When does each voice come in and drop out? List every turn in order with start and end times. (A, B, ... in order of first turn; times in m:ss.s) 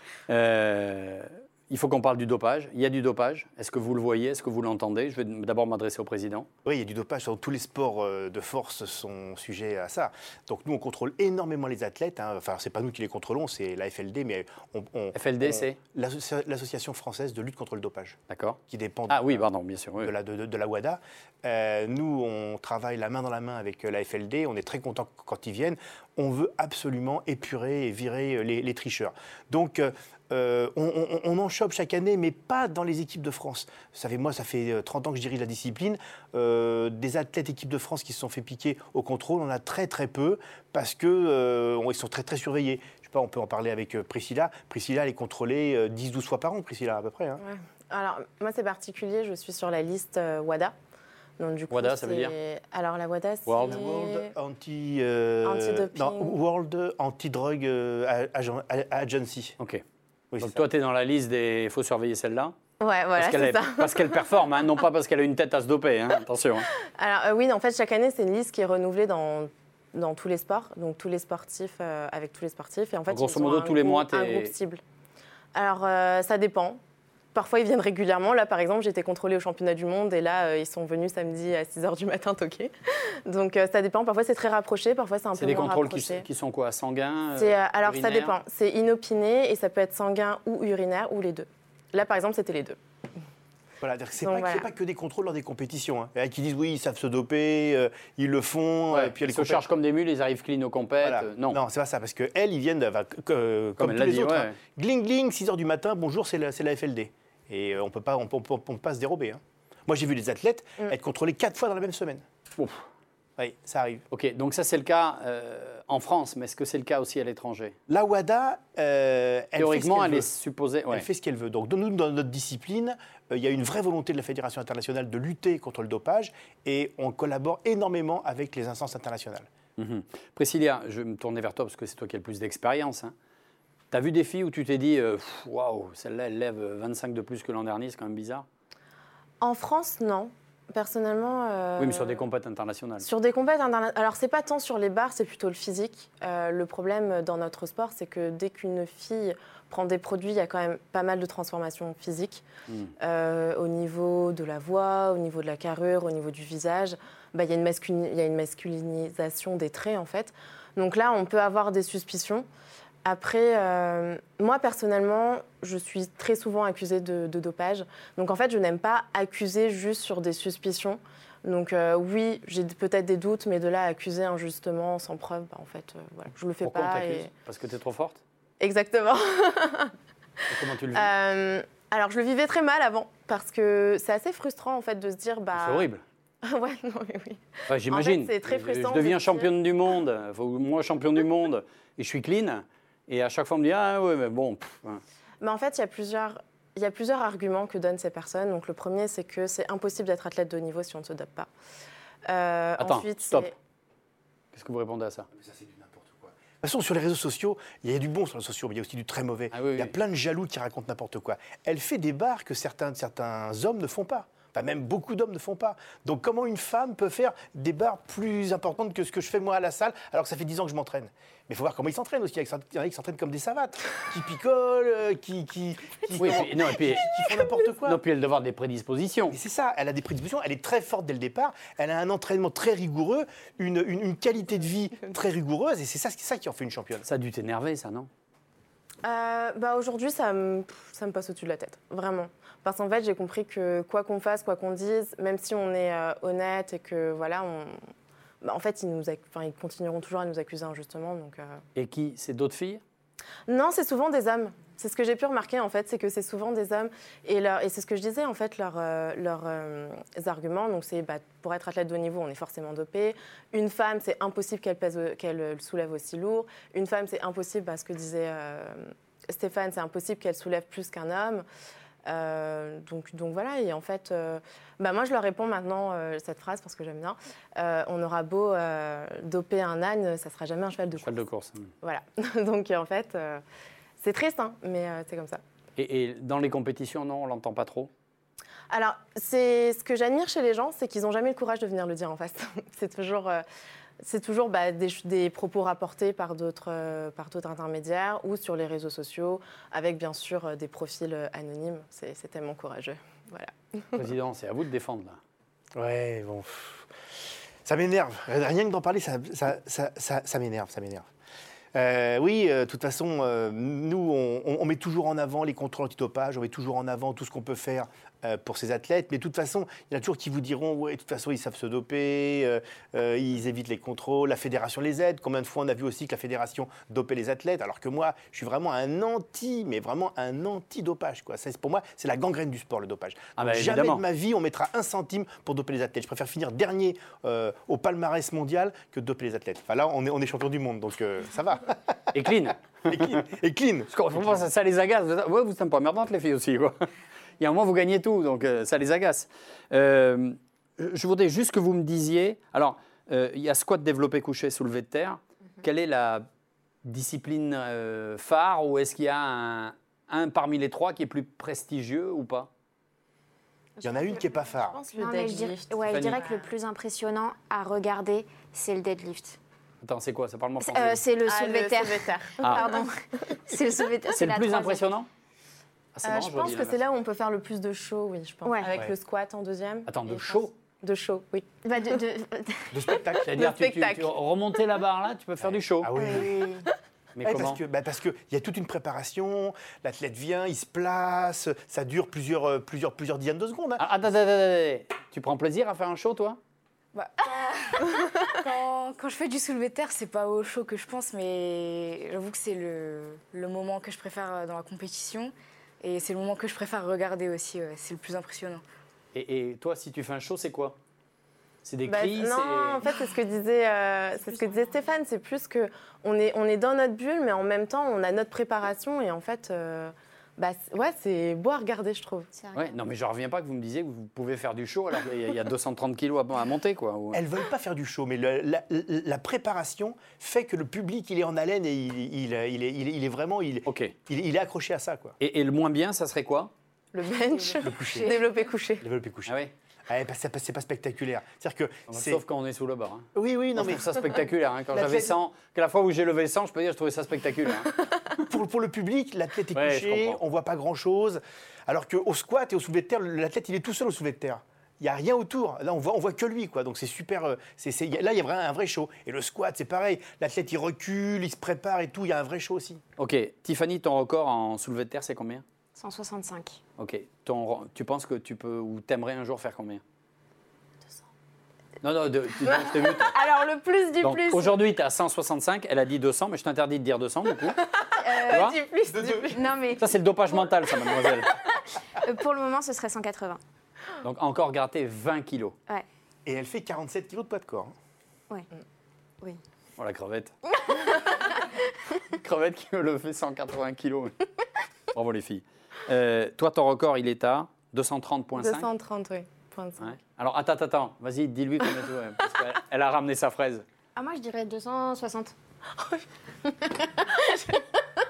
0:00.3-0:06.5 A
0:06.6-0:19.5 B
0:15.1-0:15.8 A
0:18.3-0:20.1 A
0:20.0-0:47.4 B
0:47.4-0:50.7 C
0:51.4-0:54.3 C
0:51.7-0:52.3 A
0:53.5-0:53.8 A
0:53.6-0:59.6 B
0:55.4-0:56.4 C
1:00.3-1:00.6 B
1:00.4-1:02.6 A
1:02.8-1:04.2 C
1:03.2-1:06.7 A
1:07.0-1:14.8 C
1:13.1-1:14.5 A
1:15.6-1:16.8 C
1:17.3-1:26.3 C
1:25.4-1:28.4 A
1:27.4-1:32.8 C
1:33.8-1:39.7 B
1:34.2-1:34.7 C
1:38.9-1:41.6 A
1:41.0-1:52.2 B
1:43.8-1:44.6 A
1:52.6-1:52.8 A
1:53.4-1:54.0 B
1:54.1-1:57.8 A
1:57.9-2:00.3 B
1:59.6-2:01.1 A
2:00.9-2:09.5 B
2:09.8-2:13.1 A
2:13.9-2:18.5 A
2:19.4-2:22.2 C
2:21.8-2:23.1 A
2:23.0-2:32.5 C
2:32.7-2:32.9 A
2:33.0-2:42.5 C
2:43.0-2:57.3 C
2:56.6-2:58.2 A
2:58.6-2:59.9 C
3:00.5-3:01.1 A
3:00.9-3:05.9 C
3:05.6-3:06.0 A
3:06.4-3:09.5 C
3:07.7-3:15.0 A
3:15.4-3:21.5 C
3:22.3-3:23.5 C
3:22.8-3:23.5 A
3:24.5-3:25.3 A
3:25.4-3:48.0 B
3:29.5-3:29.9 A
3:46.2-3:47.3 A
3:47.8-3:49.4 A
3:49.3-3:57.1 B
3:57.0-3:58.1 A
3:59.0-4:07.8 C
4:08.4-4:11.6 C
4:11.8-4:12.8 A
4:13.5-4:31.4 C
4:32.1-4:41.2 C
4:41.0-4:41.7 A
4:41.8-4:43.4 C
4:44.0-4:45.4 C
4:45.8-4:47.9 A
4:48.7-4:53.4 C
4:54.0-5:04.0 C
5:03.9-5:05.2 A
5:05.8-5:06.9 B
5:07.6-5:11.1 B
5:11.7-5:42.2 B
5:33.4-5:34.0 A
5:42.1-5:43.2 A
5:42.9-5:44.4 B
5:43.9-5:46.9 A
5:47.4-5:56.3 A
5:56.8-6:02.5 A
6:03.8-6:04.3 D
6:03.8-6:04.8 B
6:04.7-6:06.5 C
6:04.9-6:09.4 D
6:05.9-6:06.2 A
6:09.8-6:11.0 A
6:10.6-6:14.9 D
6:11.2-6:12.8 C
6:12.4-6:12.8 A
6:14.1-6:15.1 A
6:15.9-6:16.8 A
6:16.0-6:21.7 C
6:18.5-6:18.7 D
6:19.9-6:20.5 A
6:21.6-6:23.0 D
6:22.7-6:23.4 B
6:23.2-6:24.2 C
6:23.2-6:25.9 A
6:25.4-6:26.6 B
6:26.0-6:26.7 D
6:27.2-6:27.6 A
6:27.2-6:33.9 B
6:33.8-6:36.4 A
6:36.9-6:48.6 E
6:49.1-6:50.8 A
6:51.6-6:52.9 A
6:51.9-7:02.3 C
7:02.4-7:02.7 D
7:02.5-7:07.2 A
7:07.1-7:15.2 B
7:13.7-7:14.0 A
7:15.2-7:16.5 A
7:16.9-7:18.8 C
7:17.3-7:18.4 E
7:17.6-7:18.2 B
7:18.8-7:19.3 B
7:19.3-7:19.5 A
7:19.9-7:22.2 B
7:21.9-7:27.7 A
7:23.2-7:24.1 B
7:24.8-7:25.1 B
7:28.3-7:42.8 B
7:29.5-7:30.2 A
7:43.0-7:45.4 A
7:45.8-7:46.6 D
7:46.8-7:49.8 A
7:51.8-7:53.1 A
7:52.9-7:54.6 D
7:54.0-7:57.6 A
7:57.6-7:59.6 C
7:58.0-7:58.4 D
7:58.2-7:58.6 A
7:59.3-8:00.0 D
7:59.8-8:01.4 A
8:02.0-8:03.4 D
8:04.0-8:05.6 A
8:06.3-8:07.7 B
8:09.8-8:10.3 A
8:10.6-8:11.4 D
8:12.1-8:14.2 A
8:14.9-8:18.7 A
8:18.4-8:20.0 C
8:19.8-8:23.6 A
8:24.0-8:25.3 D
8:25.8-8:26.0 C